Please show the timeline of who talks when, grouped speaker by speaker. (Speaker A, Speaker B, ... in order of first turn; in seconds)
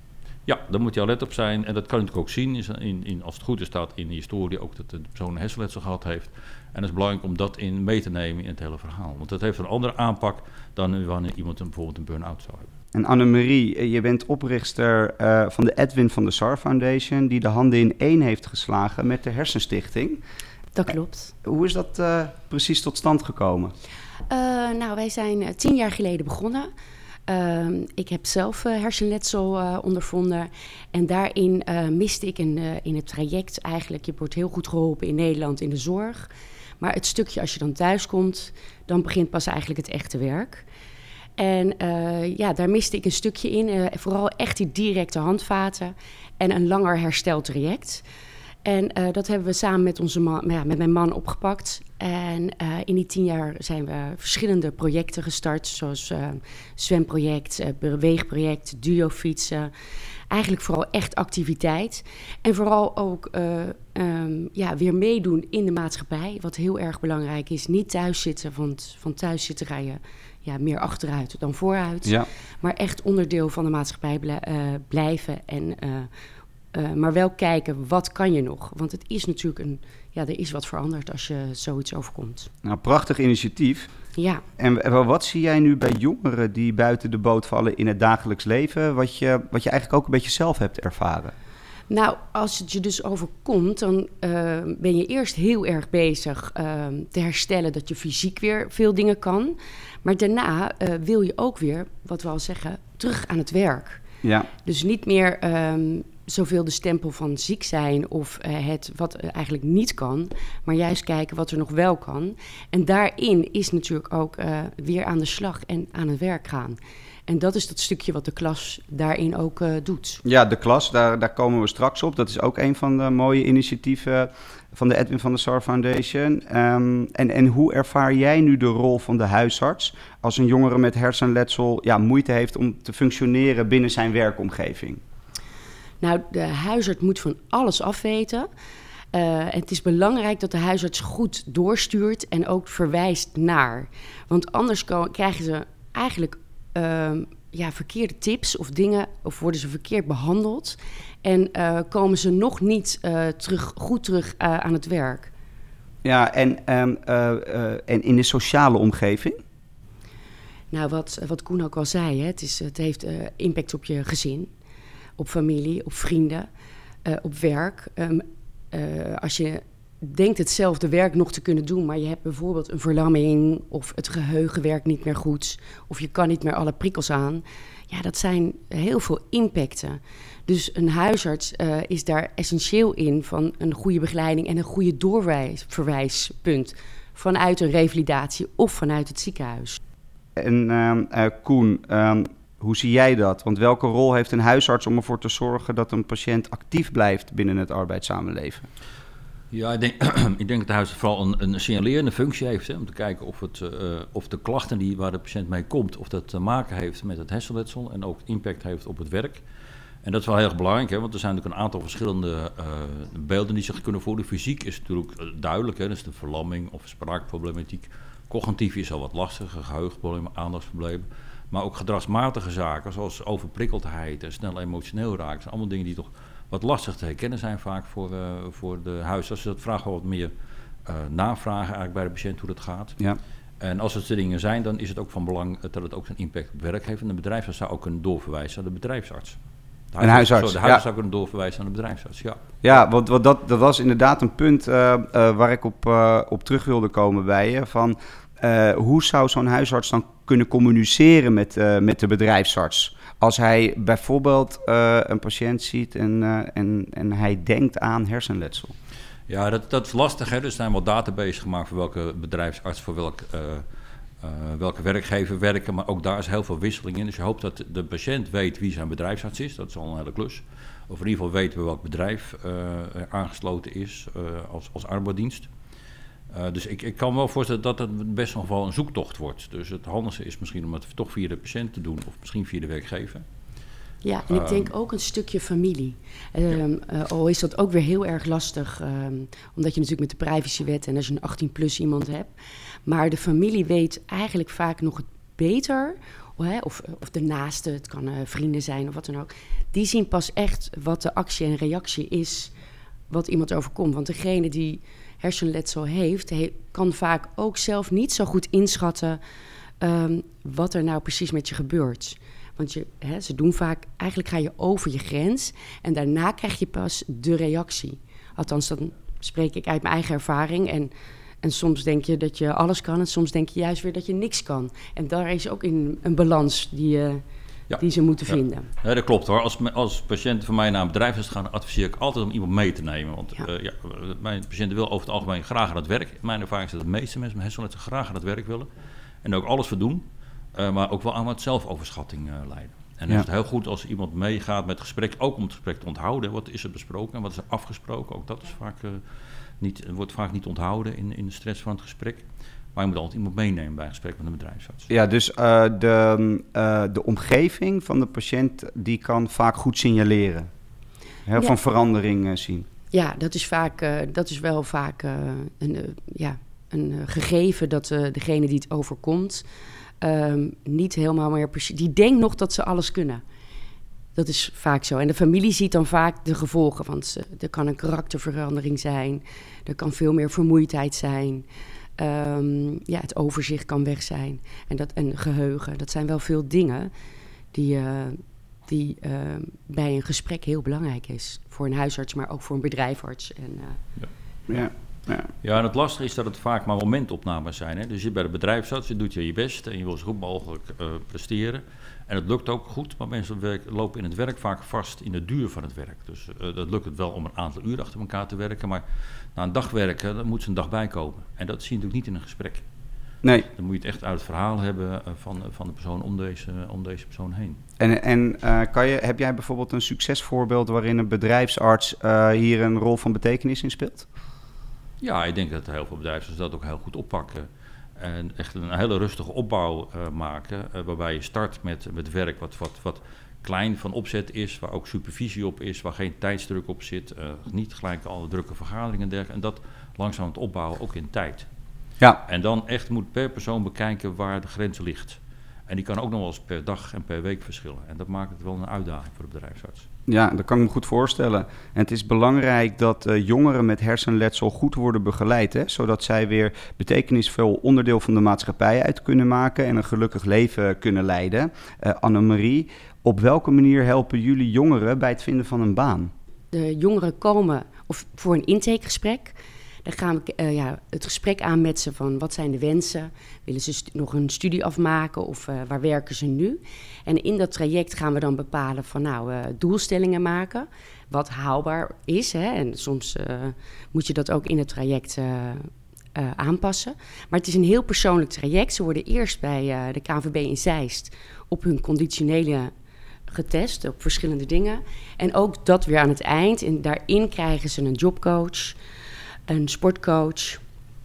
Speaker A: 0.5-12.7, 199.5-209.4, 210.0-230.3, 230.8-233.0, 233.6-239.4, 239.9-242.6, 259.3-263.6, 264.2-275.5, 276.3-283.2, 284.3-284.7, 327.7-338.7, 339.2-349.0, 349.6-352.2, 352.7-354.9, 395.4-408.8, 409.3-412.6, 413.4-417.6, 425.0-441.5, 442.2-449.9
Speaker B: 12.9-20.2, 21.4-23.7, 82.6-83.9, 84.6-91.3, 104.2-104.5, 120.2-135.0, 156.0-159.4, 190.3-198.7, 240.0-240.8, 242.6-258.7, 354.9-360.5, 361.3-362.7, 394.5-395.3, 417.8-424.1, 450.1-466.1
Speaker C: 20.7-21.3, 24.3-26.7, 27.3-40.6, 41.4-48.0, 48.6-59.7, 60.3-76.1, 76.7-82.5, 84.2-84.4, 91.9-104.0, 104.6-120.2, 136.0-138.5, 139.1-155.3, 160.7-164.5, 165.2-166.5, 167.0-189.8, 284.0-292.3, 292.9-302.5, 303.1-309.2, 309.8-327.2, 327.8-328.7, 362.9-369.4, 370.0-373.2, 374.1-381.4, 382.0-386.9, 387.5-393.8, 466.5-492.7, 493.3-498.8, 499.5-500.6